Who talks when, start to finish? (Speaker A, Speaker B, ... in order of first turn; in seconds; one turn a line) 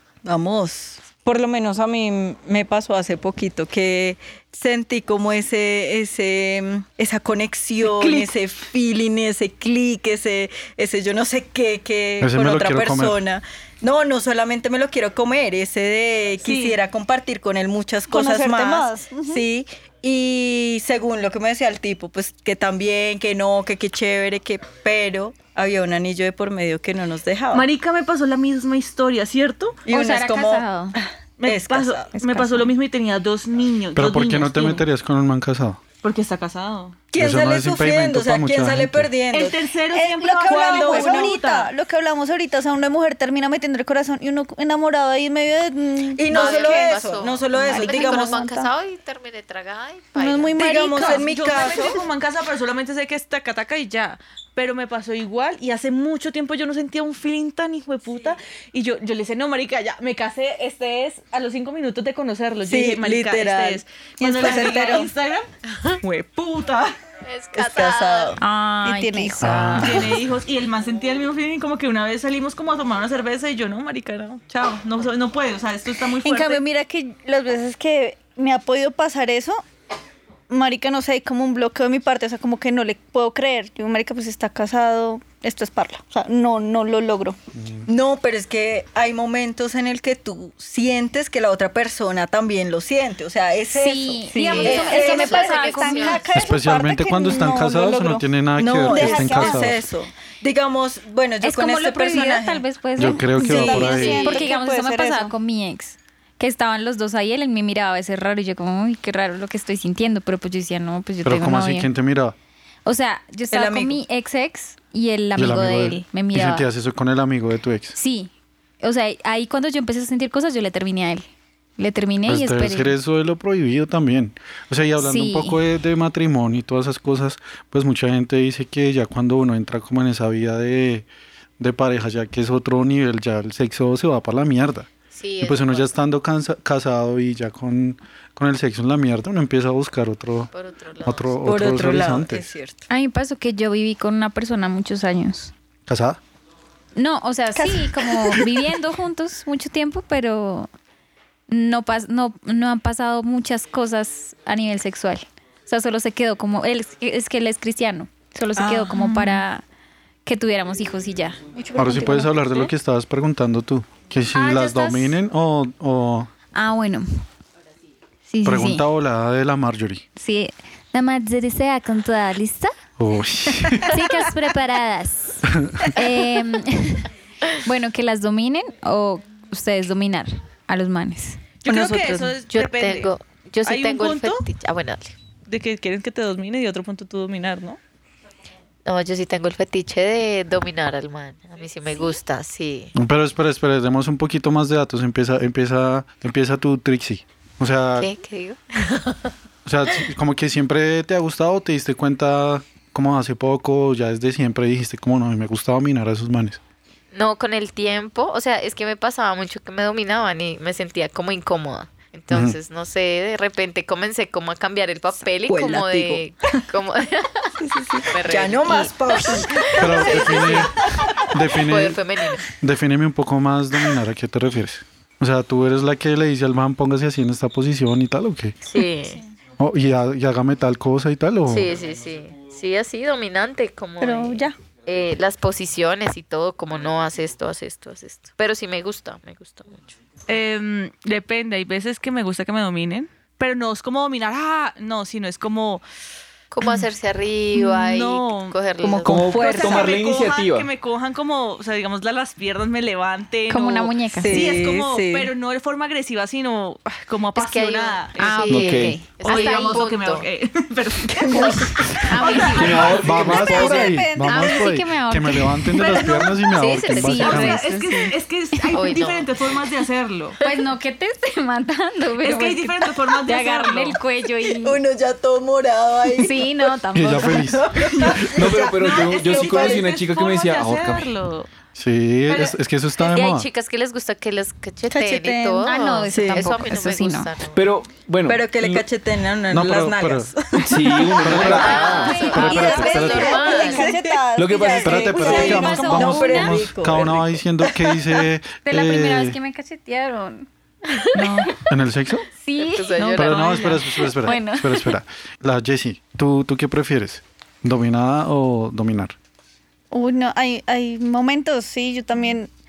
Speaker A: 0.2-27.7
Speaker B: 7.8-8.3
Speaker C: 12.2-13.2
Speaker B: 16.4-16.8
Speaker D: 18.1-19.4
Speaker B: 27.5-29.8
Speaker A: 29.9-32.2
Speaker E: 29.9-30.9
Speaker B: 31.4-34.9
Speaker E: 32.1-32.7
Speaker C: 34.0-35.8
Speaker B: 36.0-37.0
Speaker A: 37.1-39.6
Speaker C: 37.1-39.1
Speaker B: 39.3-41.7
Speaker D: 39.9-46.8
Speaker A: 40.4-41.4
Speaker A: 46.1-48.5
Speaker F: 46.3-50.5
Speaker B: 46.4-46.9
Speaker D: 47.5-48.7
Speaker D: 50.1-51.2
Speaker A: 50.5-52.0
Speaker B: 50.6-65.5
Speaker A: 62.7-65.1
Speaker D: 64.4-65.0
Speaker B: 66.0-66.9
Speaker F: 67.2-68.4
Speaker A: 67.5-68.4
Speaker E: 68.4-70.0
Speaker D: 68.8-70.1
Speaker C: 69.4-70.1
Speaker B: 69.8-76.6
Speaker D: 76.2-79.6
Speaker D: 80.5-87.4
Speaker C: 87.5-87.9
Speaker A: 87.9-95.6
Speaker E: 93.7-96.4
Speaker D: 94.3-98.3
Speaker F: 94.5-96.3
Speaker C: 96.3-99.8
Speaker A: 98.6-102.7
Speaker D: 98.8-99.7
Speaker E: 101.4-111.9
Speaker C: 103.0-104.3
Speaker D: 103.3-105.3
Speaker A: 103.4-104.5
Speaker C: 111.2-112.3
Speaker E: 112.8-116.7
Speaker A: 113.5-114.0
Speaker C: 115.4-118.0
Speaker E: 118.0-121.3
Speaker E: 121.8-122.9
Speaker C: 122.3-131.1
Speaker E: 125.0-125.6
Speaker C: 131.6-134.9
Speaker F: 135.1-135.9
Speaker C: 135.4-140.5
Speaker F: 140.5-141.3
Speaker C: 141.0-142.5
Speaker A: 141.4-142.8
Speaker E: 142.9-145.5
Speaker C: 145.9-146.2
Speaker E: 146.9-150.7
Speaker E: 151.5-159.6
Speaker A: 158.6-158.9
Speaker E: 160.2-161.5
Speaker D: 161.5-162.3
Speaker C: 161.8-166.3
Speaker E: 164.3-165.2
Speaker E: 166.5-167.2
Speaker E: 168.3-168.8
Speaker C: 168.4-170.0
Speaker E: 170.2-172.7
Speaker C: 173.0-174.0
Speaker E: 173.8-177.1
Speaker C: 175.6-175.9
Speaker E: 177.6-181.6
Speaker B: 181.6-183.1
Speaker A: 181.7-182.3
Speaker F: 182.5-185.1
Speaker B: 183.6-184.4
Speaker B: 185.5-187.8
Speaker F: 188.8-192.9
Speaker C: 192.9-198.1
Speaker F: 197.9-199.3
Speaker C: 199.6-206.6
Speaker F: 207.1-222.4
Speaker C: 212.3-212.6
Speaker A: 215.5-216.2
Speaker A: 217.6-220.7
Speaker C: 219.8-228.6
Speaker F: 228.6-229.2
Speaker C: 229.6-231.7
Speaker F: 231.5-239.9
Speaker D: 234.0-234.6
Speaker B: 240.3-245.8
Speaker F: 246.5-249.6
Speaker B: 247.5-248.6
Speaker A: 248.8-250.0
Speaker G: 249.0-250.7
Speaker B: 249.3-261.7
Speaker E: 253.5-254.6
Speaker A: 254.2-255.3
Speaker F: 257.3-260.3
Speaker E: 258.2-259.9
Speaker G: 258.5-259.0
Speaker A: 261.2-261.9
Speaker D: 261.3-264.7
Speaker E: 261.3-263.0
Speaker G: 262.4-264.1
Speaker C: 262.9-267.6
Speaker E: 264.2-268.8
Speaker F: 266.7-267.3
Speaker B: 267.0-270.4
Speaker F: 268.7-269.5
Speaker E: 270.4-274.8
Speaker B: 272.2-274.0
Speaker A: 274.4-276.7
Speaker E: 276.1-277.6
Speaker C: 276.9-278.0
Speaker A: 277.7-279.9
Speaker B: 277.9-281.5
Speaker G: 278.3-281.1
Speaker C: 281.8-283.5
Speaker F: 282.3-287.6
Speaker D: 284.9-285.7
Speaker E: 285.6-287.3
Speaker A: 286.1-286.6
Speaker G: 287.5-288.9
Speaker A: 288.3-291.6
Speaker C: 289.5-290.3
Speaker G: 290.6-292.2
Speaker C: 290.9-293.4
Speaker F: 291.3-294.0
Speaker E: 291.6-293.1
Speaker D: 292.2-296.1
Speaker A: 292.5-298.2
Speaker G: 294.4-295.3
Speaker C: 294.8-299.4
Speaker E: 295.2-296.6
Speaker E: 298.6-301.5
Speaker B: 301.1-301.5
Speaker C: 301.7-302.2
Speaker E: 302.4-304.9
Speaker F: 302.6-303.7
Speaker C: 303.1-309.1
Speaker B: 303.2-303.9
Speaker D: 309.9-312.5